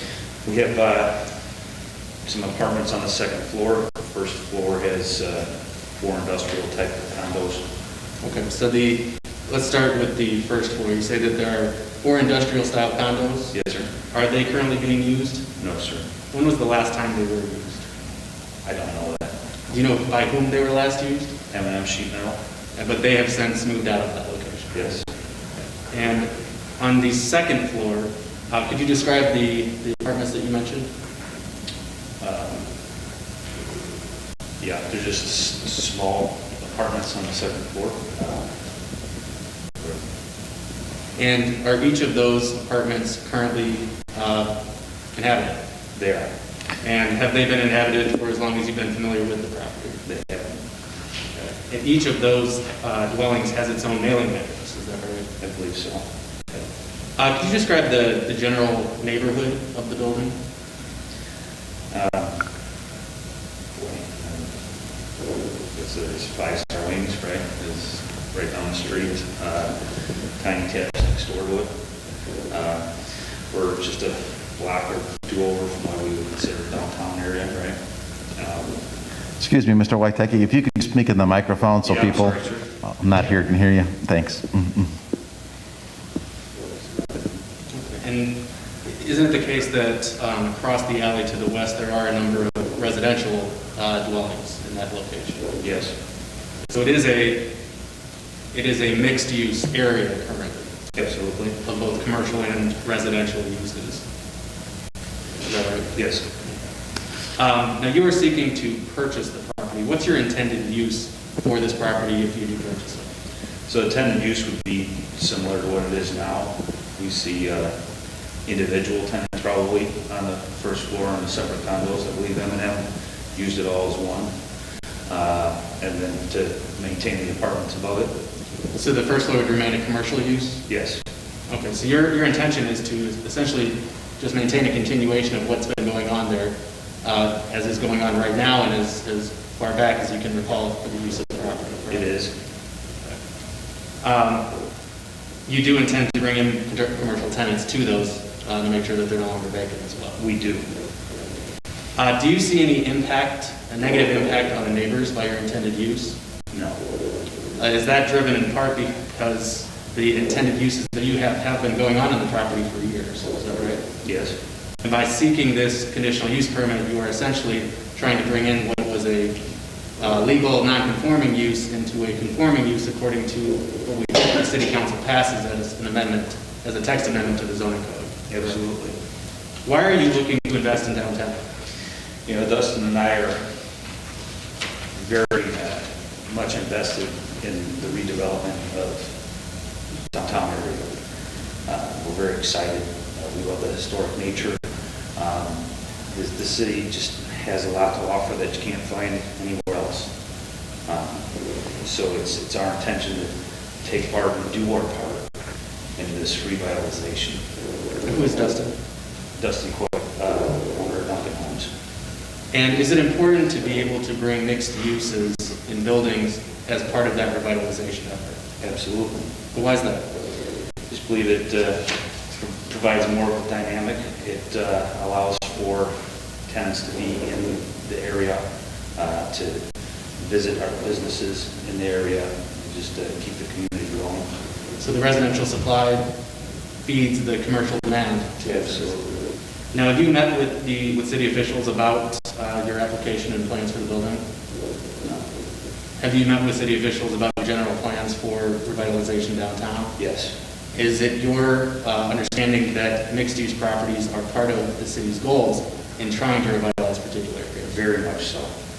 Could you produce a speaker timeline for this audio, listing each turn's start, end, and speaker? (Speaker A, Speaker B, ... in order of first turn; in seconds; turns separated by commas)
Speaker A: 0.4-1.3, Speaker A: 2.2-7.6, Speaker B: 8.2-13.5, Speaker A: 13.5-13.9, Speaker B: 14.1-15.4, Speaker A: 15.6-16.1, Speaker B: 16.3-17.8, Speaker A: 18.6-19.3, Speaker B: 19.7-21.3, Speaker A: 21.5-22.4, Speaker B: 22.8-24.9, Speaker A: 24.7-25.0, Speaker B: 25.9-30.9, Speaker A: 32.2-32.6, Speaker A: 34.6-38.5, Speaker B: 41.1-44.5, Speaker B: 45.1-45.6, Speaker A: 45.9-46.3, Speaker B: 46.8-50.0, Speaker A: 50.0-50.6, Speaker B: 51.3-55.3, Speaker A: 55.4-56.6, Speaker B: 57.2-60.4, Speaker A: 61.9-62.4, Speaker A: 63.7-64.5, Speaker A: 65.7-69.7, Speaker A: 70.4-71.7, Speaker A: 72.5-72.9, Speaker A: 73.5-77.8, Speaker A: 78.3-78.8, Speaker C: 79.4-84.9, Speaker A: 82.1-82.5, Speaker A: 87.0-87.4, Speaker B: 87.7-95.5, Speaker A: 95.6-95.9, Speaker B: 96.7-97.5, Speaker B: 98.5-100.7, Speaker A: 100.9-101.6, Speaker B: 101.6-104.0, Speaker B: 105.4-105.9, Speaker A: 105.9-106.2, Speaker B: 107.3-113.1, Speaker A: 113.7-117.7, Speaker A: 118.5-124.3, Speaker A: 125.1-128.1, Speaker B: 128.7-130.6, Speaker A: 130.7-131.0, Speaker B: 131.5-142.1, Speaker A: 141.9-142.3, Speaker B: 144.0-144.4, Speaker B: 145.5-150.2, Speaker A: 150.2-150.7, Speaker B: 152.0-156.2, Speaker A: 156.5-156.8, Speaker B: 157.6-163.8, Speaker A: 164.0-164.3, Speaker B: 164.8-169.4, Speaker B: 170.0-178.5, Speaker A: 178.3-178.9, Speaker B: 179.6-181.4, Speaker A: 182.2-183.4, Speaker A: 184.9-189.1, Speaker A: 190.1-190.8, Speaker A: 191.6-194.6, Speaker A: 195.2-200.1, Speaker A: 200.8-201.2, Speaker A: 201.8-203.3, Speaker A: 203.8-205.2, Speaker A: 205.9-207.4, Speaker B: 208.0-208.7, Speaker A: 209.4-211.7, Speaker B: 212.5-218.4, Speaker A: 218.6-219.3, Speaker B: 219.5-220.1, Speaker A: 220.9-225.9, Speaker A: 226.5-228.4, Speaker A: 228.9-229.6, Speaker A: 230.2-234.3, Speaker B: 234.8-236.1, Speaker B: 236.8-238.7, Speaker A: 238.4-239.2, Speaker B: 239.7-244.2, Speaker B: 246.0-249.9, Speaker A: 250.0-250.3, Speaker B: 250.7-257.7, Speaker A: 257.6-258.5